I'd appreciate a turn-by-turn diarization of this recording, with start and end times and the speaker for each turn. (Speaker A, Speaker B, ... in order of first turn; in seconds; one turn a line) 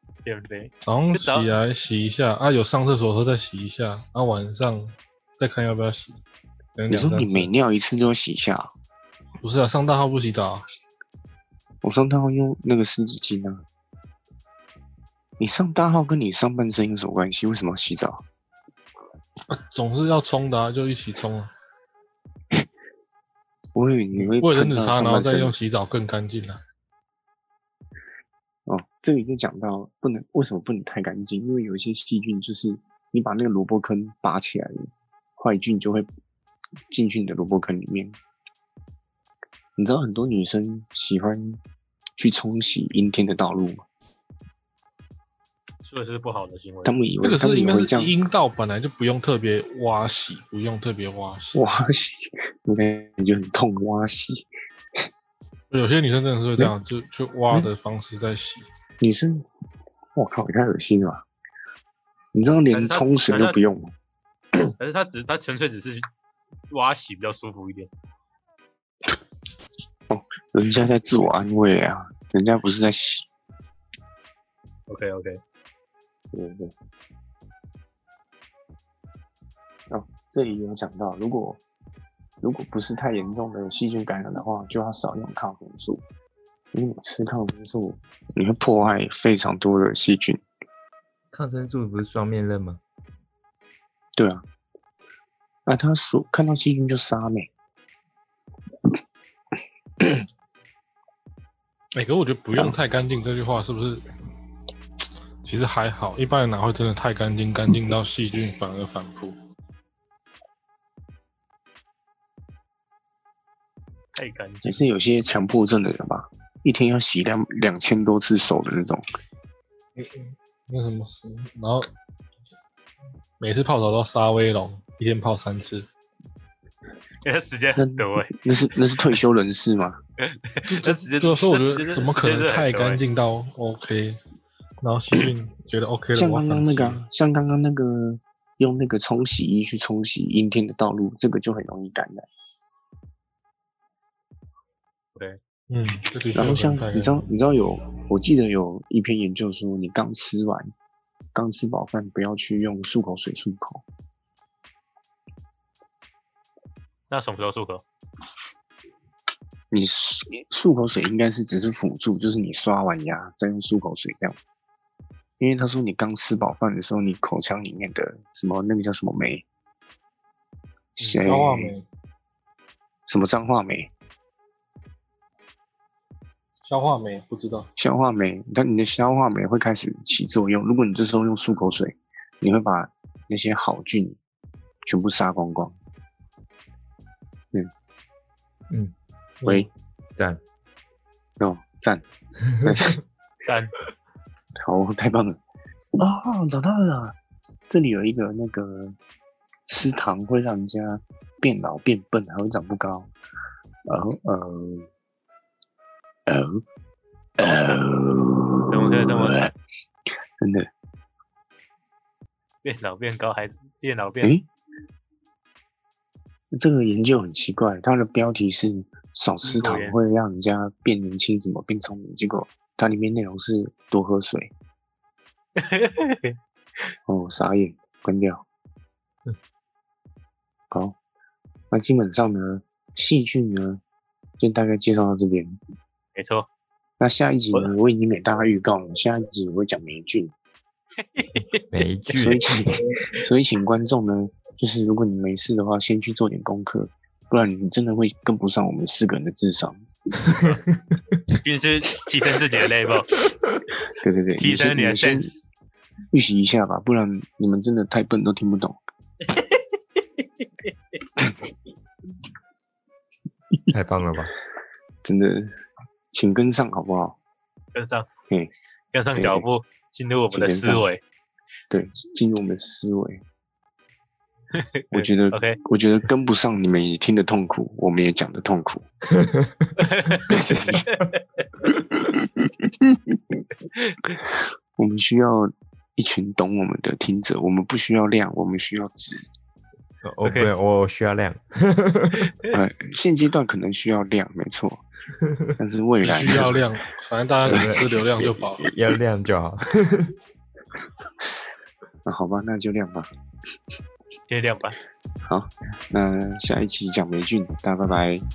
Speaker A: 0.2-1.5
Speaker B: 0.8-6.2
Speaker B: 6.8-7.5
Speaker C: 6.9-8.7
Speaker B: 9.4-10.7
Speaker C: 11.8-13.6
Speaker C: 15.4-18.2
Speaker B: 19.5-21.5
Speaker C: 23.8-25.6
Speaker B: 24.1-26.6
Speaker C: 28.7-36.1
Speaker C: 36.9-38.2
Speaker C: 39.8-41.6
Speaker C: 42.2-43.9
Speaker A: 45.8-47.0
Speaker C: 46.9-48.1
Speaker B: 47.2-51.6
Speaker C: 51.5-54.5
Speaker B: 55.7-58.7
Speaker C: 59.0-59.5
Speaker C: 60.2-61.2
Speaker C: 62.3-63.9
Speaker A: 62.7-63.6
Speaker A: 64.8-66.1
Speaker A: 66.7-67.9
Speaker C: 70.1-73.3
Speaker A: 74.9-75.4
Speaker C: 76.3-76.7
Speaker C: 79.9-81.6
Speaker C: 82.4-86.0
Speaker C: 86.7-90.4
Speaker D: 91.3-92.8
Speaker C: 94.2-94.4
Speaker C: 95.7-97.5
Speaker B: 102.0-104.0
Speaker B: 105.4-109.3
Speaker A: 114.2-114.8
Speaker C: 114.7-119.0
Speaker B: 120.0-121.9
Speaker B: 123.4-125.9
Speaker A: 127.2-128.4
Speaker C: 127.8-130.0
Speaker A: 130.2-133.0
Speaker B: 130.7-134.2
Speaker B: 134.8-137.0
Speaker C: 136.2-142.3
Speaker B: 145.7-147.3
Speaker C: 146.3-150.7
Speaker C: 151.3-153.8
Speaker A: 157.1-157.8
Speaker C: 159.7-164.4
Speaker C: 165.4-169.4
Speaker C: 171.0-171.8
Speaker A: 171.0-171.3
Speaker B: 171.2-171.9
Speaker C: 173.1-173.9
Speaker B: 176.6-177.7
Speaker C: 177.8-184.2
Speaker C: 184.9-185.8
Speaker B: 189.4-189.7
Speaker D: 190.2-190.4
Speaker C: 191.4-192.0
Speaker C: 192.6-193.0
Speaker A: 193.5-193.7
Speaker C: 194.6-195.4
Speaker C: 196.0-197.2
Speaker C: 197.7-199.0
Speaker C: 199.7-203.1
Speaker C: 203.9-204.9
Speaker C: 206.3-206.6
Speaker C: 207.4-209.5
Speaker A: 208.7-209.5
Speaker C: 210.4-210.7
Speaker A: 212.6-214.4
Speaker C: 216.5-224.5
Speaker A: 219.4-220.0
Speaker A: 225.6-226.4
Speaker C: 227.1-228.4
Speaker C: 231.7-233.8
Speaker C: 234.4-235.6
Speaker A: 236.2-236.5
Speaker C: 237.0-240.3
Speaker A: 241.2-241.6
Speaker D: 241.7-242.4
Speaker C: 242.2-249.8
Speaker A: 250.3-250.6
Speaker A: 251.4-253.1
Speaker C: 254.0-255.3
Speaker A: 254.4-255.4
Speaker C: 256.1-258.8
Speaker A: 259.3-259.6
Speaker C: 261.2-261.5
Speaker D: 263.7-264.3
Speaker C: 265.0-265.5
Speaker C: 266.1-267.2
Speaker A: 267.7-268.1
Speaker A: 268.9-271.0
Speaker C: 269.1-269.5
Speaker C: 270.3-270.9
Speaker C: 271.7-273.2
Speaker A: 274.6-275.6
Speaker C: 274.9-278.9
Speaker D: 279.1-279.7
Speaker A: 279.8-280.3
Speaker C: 280.3-280.9
Speaker A: 280.9-281.2
Speaker C: 281.7-283.4
Speaker A: 283.7-284.1
Speaker C: 284.2-289.2
Speaker D: 290.0-292.3
Speaker A: 290.2-290.5
Speaker C: 292.5-294.8
Speaker D: 295.2-295.5
Speaker C: 295.6-296.6
Speaker B: 296.0-298.6
Speaker C: 297.5-298.3
Speaker D: 297.5-300.1
Speaker C: 302.1-303.1
Speaker A: 304.3-304.8
Speaker C: 305.2-308.2